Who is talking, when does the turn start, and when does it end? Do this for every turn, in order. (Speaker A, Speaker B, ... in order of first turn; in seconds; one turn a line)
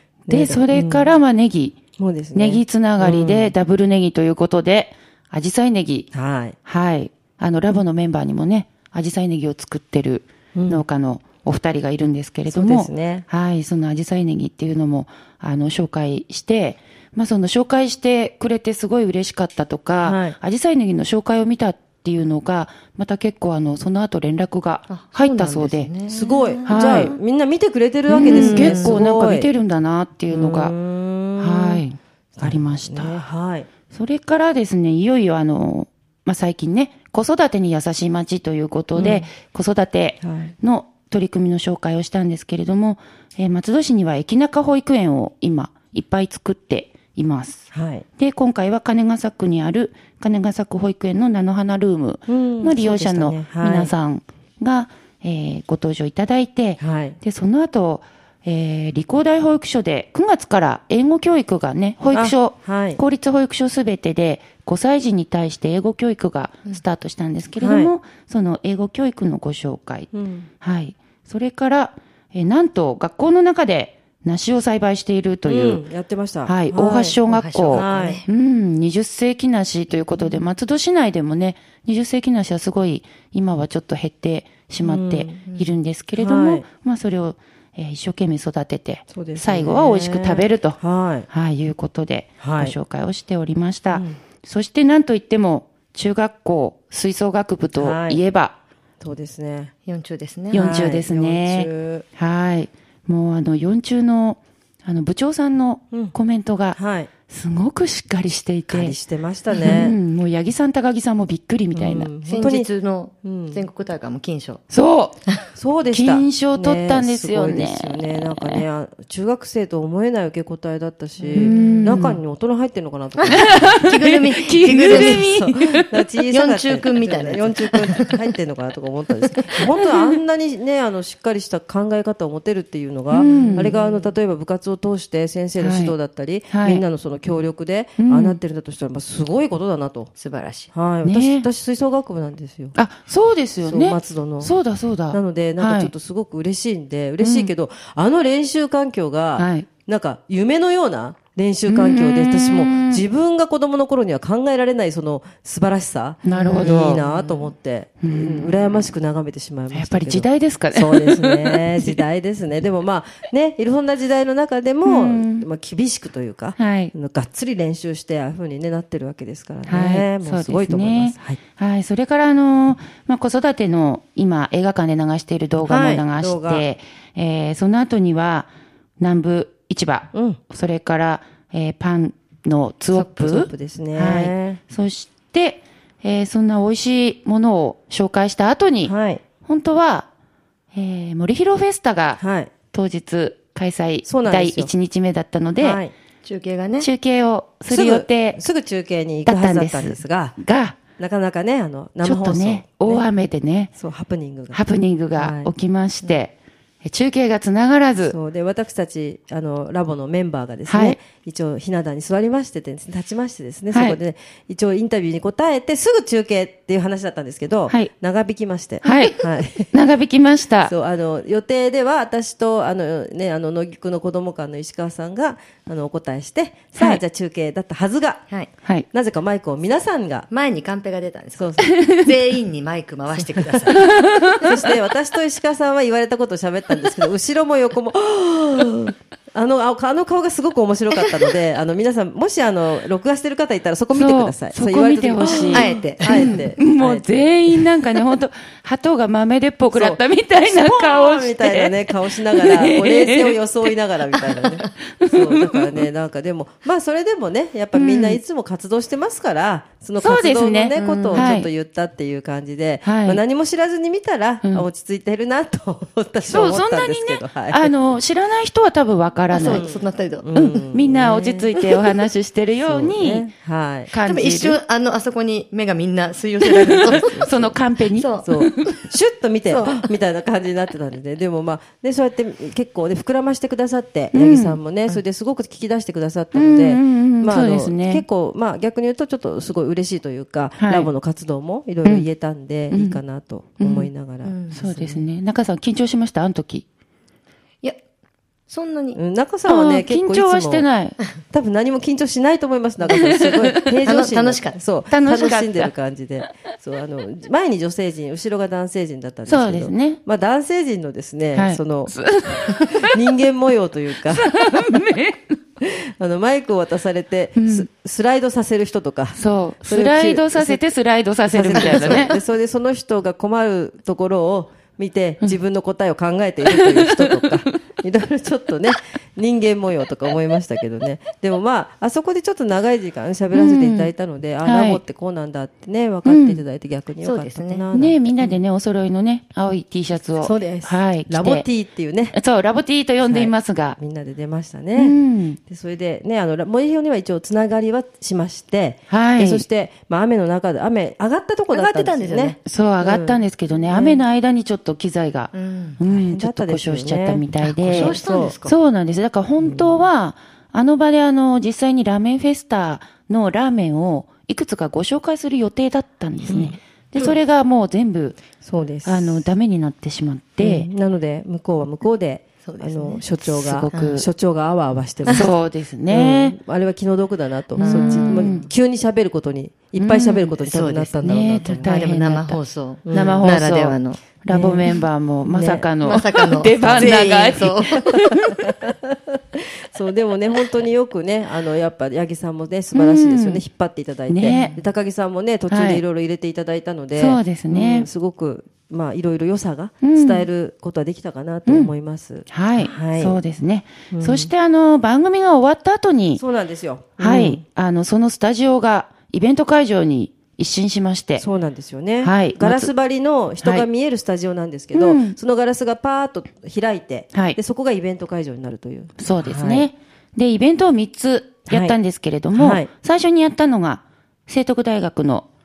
Speaker A: 0.3-1.1
Speaker B: 0.3-1.8
Speaker A: 2.0-3.5
Speaker B: 2.3-6.1
Speaker A: 6.1-6.5
Speaker B: 6.6-25.9
Speaker A: 10.5-10.8
Speaker A: 12.5-13.2
Speaker A: 20.0-20.4
Speaker C: 24.9-27.1
Speaker A: 26.1-29.5
Speaker B: 26.6-27.1
Speaker B: 28.1-30.7
Speaker C: 28.2-29.0
Speaker A: 30.3-31.8
Speaker B: 31.4-33.2
Speaker A: 32.4-33.7
Speaker B: 33.9-47.7
Speaker A: 39.0-39.3
Speaker A: 40.2-40.5
Speaker A: 47.7-48.0
Speaker B: 48.2-75.8
Speaker A: 52.3-53.9
Speaker A: 56.8-57.2
Speaker A: 62.1-63.0
Speaker A: 67.6-67.9
Speaker A: 70.1-70.5
Speaker A: 75.5-78.2
Speaker B: 76.4-90.8
Speaker C: 77.3-78.3
Speaker A: 84.8-85.3
Speaker C: 85.4-85.7
Speaker A: 86.2-86.6
Speaker A: 89.1-91.3
Speaker B: 91.3-98.5
Speaker A: 92.4-92.7
Speaker A: 93.9-94.2
Speaker A: 97.8-98.2
Speaker A: 99.0-99.7
Speaker C: 99.9-100.7
Speaker B: 100.5-109.0
Speaker A: 100.5-102.0
Speaker A: 105.9-106.2
Speaker A: 106.7-107.1
Speaker A: 108.7-110.0
Speaker B: 109.6-112.1
Speaker A: 111.7-112.7
Speaker C: 112.2-114.6
Speaker A: 113.2-113.7
Speaker B: 114.7-115.2
Speaker A: 115.5-123.8
Speaker B: 115.9-118.6
Speaker C: 121.2-122.2
Speaker B: 121.3-122.2
Speaker C: 123.2-125.4
Speaker B: 123.3-126.0
Speaker A: 124.9-140.1
Speaker C: 126.3-128.3
Speaker B: 133.1-133.8
Speaker C: 133.2-134.1
Speaker B: 135.6-135.9
Speaker B: 136.5-136.8
Speaker B: 138.0-138.4
Speaker C: 140.2-140.7
Speaker A: 140.7-142.7
Speaker B: 141.0-141.5
Speaker B: 142.8-145.9
Speaker A: 143.6-144.5
Speaker A: 145.1-171.4
Speaker B: 147.2-147.5
Speaker B: 149.4-149.7
Speaker B: 151.7-153.0
Speaker B: 156.2-157.0
Speaker C: 156.3-157.3
Speaker B: 158.0-158.9
Speaker B: 159.7-162.0
Speaker B: 164.8-165.5
Speaker B: 166.6-166.9
Speaker B: 169.7-190.1
Speaker A: 175.7-176.7
Speaker A: 180.1-180.4
Speaker A: 182.9-184.6
Speaker A: 188.8-189.2
Speaker B: 190.7-192.2
Speaker A: 192.2-192.5
Speaker B: 192.7-195.8
Speaker A: 194.0-194.7
Speaker A: 195.6-195.9
Speaker C: 196.2-196.9
Speaker B: 196.8-198.4
Speaker A: 197.7-200.4
Speaker B: 199.2-200.8
Speaker A: 201.0-203.1
Speaker B: 202.0-203.7
Speaker A: 203.8-204.6
Speaker B: 204.5-208.2
Speaker A: 205.1-205.5
Speaker A: 208.1-219.7
Speaker B: 210.7-211.0
Speaker B: 213.7-214.0
Speaker B: 218.8-220.7
Speaker A: 220.6-228.2
Speaker B: 226.8-227.0
Speaker A: 228.9-230.3
Speaker C: 230.3-233.9
Speaker A: 231.4-231.8
Speaker B: 233.7-234.7
Speaker A: 234.4-247.4
Speaker B: 243.9-253.7
Speaker C: 245.2-246.4
Speaker A: 249.7-267.7
Speaker B: 255.0-255.9
Speaker B: 257.7-258.2
Speaker B: 260.0-261.5
Speaker C: 260.7-261.3
Speaker B: 262.8-263.2
Speaker B: 266.2-269.6
Speaker C: 269.3-270.3
Speaker A: 269.4-271.5
Speaker B: 270.3-273.3
Speaker A: 272.6-273.9
Speaker B: 273.9-274.6
Speaker C: 274.0-277.4
Speaker A: 276.7-277.5
Speaker B: 276.8-278.7
Speaker C: 277.9-278.8
Speaker A: 278.2-294.4
Speaker C: 279.5-279.9
Speaker B: 284.1-284.6
Speaker B: 286.3-288.0
Speaker B: 290.6-290.9
Speaker B: 292.7-293.0
Speaker B: 293.6-293.9
Speaker C: 294.2-295.0
Speaker B: 294.5-296.6
Speaker C: 298.5-299.0
Speaker A: 298.9-300.7
Speaker B: 299.4-301.0
Speaker A: 301.3-311.9
Speaker B: 302.9-303.8
Speaker C: 302.9-303.2
Speaker C: 303.8-304.6
Speaker B: 304.9-305.7
Speaker B: 309.3-310.0
Speaker B: 311.3-313.0
Speaker A: 312.9-314.8
Speaker B: 314.1-315.2
Speaker A: 315.6-320.6
Speaker B: 317.4-317.7
Speaker B: 319.1-322.1
Speaker A: 321.2-338.4
Speaker C: 321.6-322.1
Speaker B: 326.5-327.4
Speaker B: 333.3-334.8
Speaker B: 336.0-336.4
Speaker C: 337.0-337.7
Speaker B: 337.7-341.4
Speaker A: 340.2-342.1
Speaker B: 342.1-343.8
Speaker A: 343.0-354.0
Speaker B: 344.8-345.4
Speaker B: 348.9-349.4
Speaker C: 351.5-352.4
Speaker B: 352.4-368.2
Speaker C: 355.3-355.8
Speaker A: 355.8-358.3
Speaker C: 357.4-358.5
Speaker A: 359.4-359.8
Speaker A: 366.3-367.1
Speaker A: 368.4-369.2
Speaker B: 368.8-370.7
Speaker A: 370.4-375.3
Speaker C: 372.4-373.0
Speaker B: 373.2-374.1
Speaker C: 373.7-374.0
Speaker B: 375.1-376.4
Speaker A: 375.9-381.8
Speaker C: 377.6-378.5
Speaker B: 377.6-378.4
Speaker B: 379.8-380.4
Speaker C: 380.4-384.8
Speaker B: 381.0-382.4
Speaker A: 382.9-383.3
Speaker B: 382.9-388.5
Speaker A: 384.3-384.7
Speaker A: 385.3-387.0
Speaker C: 385.8-387.9
Speaker A: 388.1-403.2
Speaker B: 392.7-393.4
Speaker B: 394.1-394.6
Speaker C: 394.2-394.6
Speaker B: 395.5-395.8
Speaker B: 396.9-397.9
Speaker B: 399.8-400.3
Speaker B: 401.4-401.7
Speaker B: 402.3-406.2
Speaker A: 403.9-404.3
Speaker A: 406.1-407.4
Speaker B: 407.0-411.2
Speaker A: 411.2-419.7
Speaker B: 412.0-412.7
Speaker B: 414.7-415.2
Speaker B: 419.0-425.3
Speaker A: 421.5-421.8
Speaker A: 422.3-422.7